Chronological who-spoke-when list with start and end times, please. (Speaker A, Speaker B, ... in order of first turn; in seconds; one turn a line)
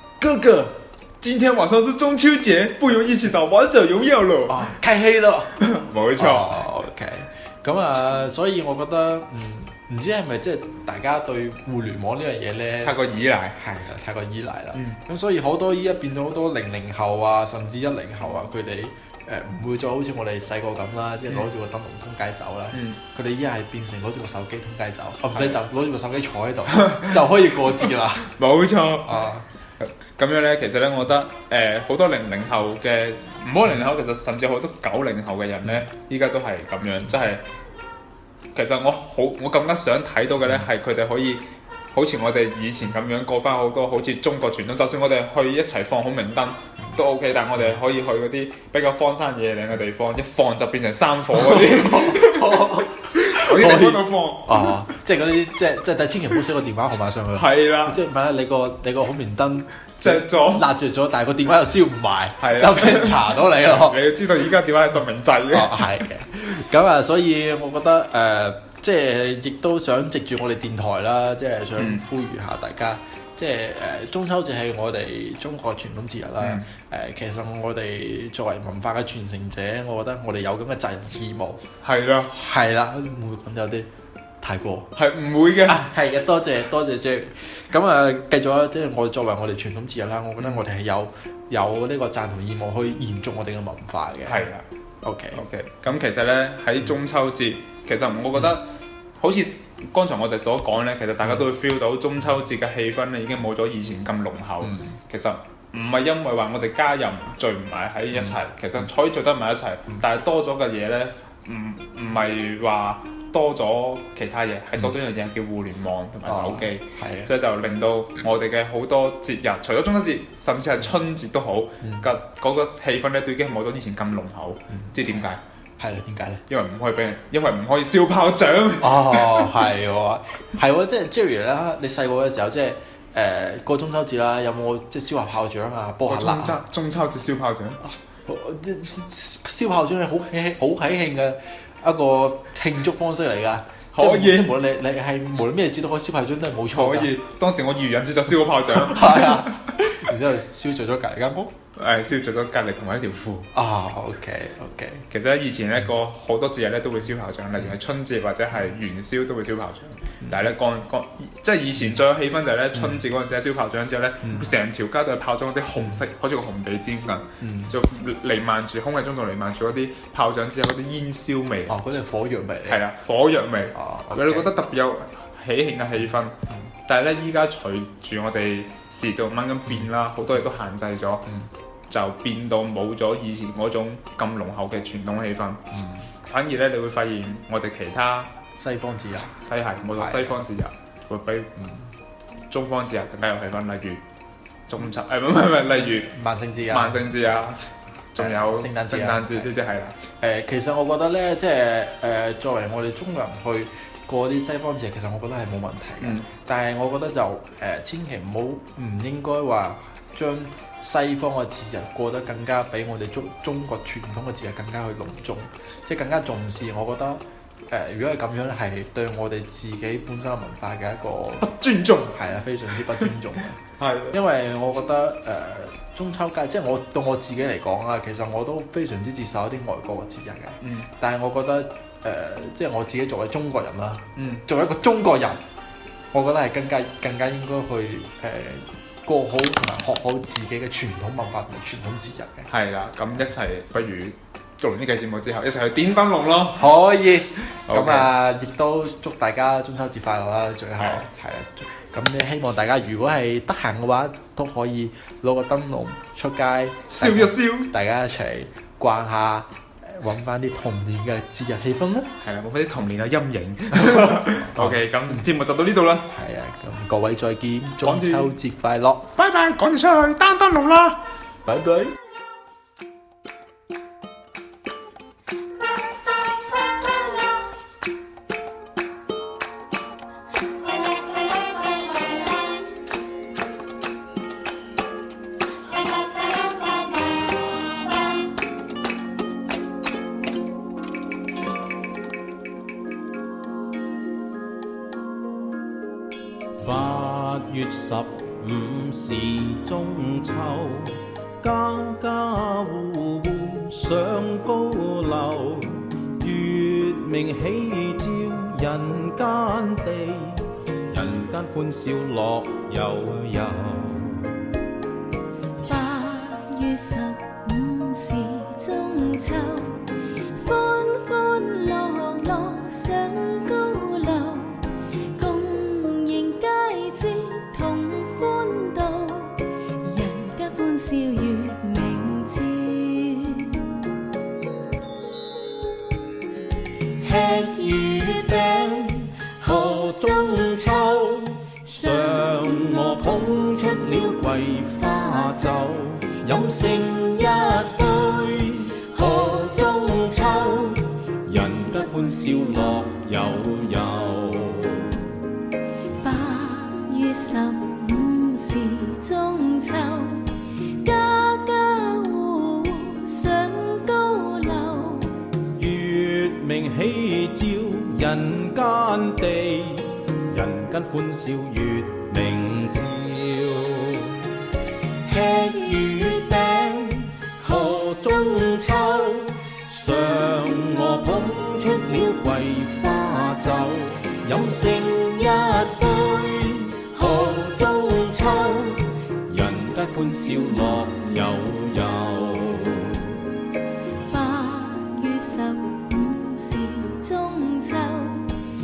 Speaker A: 0.2-4.8
Speaker B: 4.5-5.6
Speaker A: 5.5-6.5
Speaker B: 6.2-13.0
Speaker A: 12.8-13.6
Speaker B: 13.5-28.3
Speaker A: 14.7-15.0
Speaker A: 25.3-25.6
Speaker A: 26.8-27.1
Speaker A: 28.4-29.2
Speaker B: 29.0-29.4
Speaker A: 29.8-37.4
Speaker A: 38.5-54.8
Speaker B: 51.3-64.0
Speaker A: 57.3-58.0
Speaker A: 60.0-60.6
Speaker A: 62.4-66.0
Speaker B: 65.5-81.6
Speaker A: 76.4-76.7
Speaker A: 81.8-82.3
Speaker B: 82.3-83.9
Speaker B: 84.4-84.9
Speaker A: 84.9-85.8
Speaker B: 85.6-94.5
Speaker A: 94.2-94.6
Speaker B: 95.0-95.4
Speaker A: 95.3-125.4
Speaker B: 104.6-105.0
Speaker B: 116.2-117.3
Speaker B: 121.8-122.1
Speaker B: 124.7-125.3
Speaker B: 125.8-126.4
Speaker A: 126.5-129.6
Speaker B: 128.8-136.6
Speaker A: 136.1-137.8
Speaker B: 137.8-147.1
Speaker A: 143.9-144.6
Speaker A: 146.7-149.5
Speaker B: 148.7-151.5
Speaker A: 151.8-153.5
Speaker B: 153.5-155.1
Speaker A: 155.1-171.8
Speaker B: 160.2-160.5
Speaker B: 162.7-163.0
Speaker B: 164.2-164.5
Speaker B: 167.4-167.8
Speaker B: 171.7-172.8
Speaker A: 172.7-176.3
Speaker B: 173.7-174.5
Speaker A: 176.9-181.2
Speaker A: 181.9-185.6
Speaker B: 185.7-186.1
Speaker A: 186.2-188.3
Speaker B: 188.6-189.3
Speaker A: 189.4-191.5
Speaker B: 190.0-190.4
Speaker B: 191.6-191.9
Speaker A: 192.5-194.0
Speaker A: 194.7-196.1
Speaker B: 195.9-197.1
Speaker A: 196.7-197.6
Speaker A: 198.1-200.0
Speaker B: 198.2-199.5
Speaker B: 200.2-235.4
Speaker A: 206.0-206.3
Speaker A: 221.4-222.2
Speaker A: 223.8-224.2
Speaker A: 230.6-230.9
Speaker A: 234.2-234.4
Speaker B: 236.1-242.5
Speaker A: 242.5-246.7
Speaker B: 246.5-262.1
Speaker A: 247.7-248.1
Speaker A: 250.8-251.0
Speaker A: 257.0-257.7
Speaker A: 262.2-266.1
Speaker B: 263.7-265.2
Speaker B: 266.1-269.1
Speaker A: 267.8-268.3
Speaker A: 269.1-271.0
Speaker B: 271.4-271.9
Speaker C: 296.6-314.4
Speaker D: 315.6-319.8
Speaker D: 320.4-333.8
Speaker C: 337.0-355.2
Speaker D: 337.1-338.6
Speaker D: 339.4-340.5
Speaker D: 341.7-342.9
Speaker D: 348.9-349.8
Speaker D: 356.0-365.2
Speaker C: 365.4-374.3
Speaker C: 375.1-393.2
Speaker D: 375.1-376.4
Speaker D: 377.4-378.3
Speaker D: 386.9-388.4
Speaker D: 390.2-391.5
Speaker D: 394.1-398.3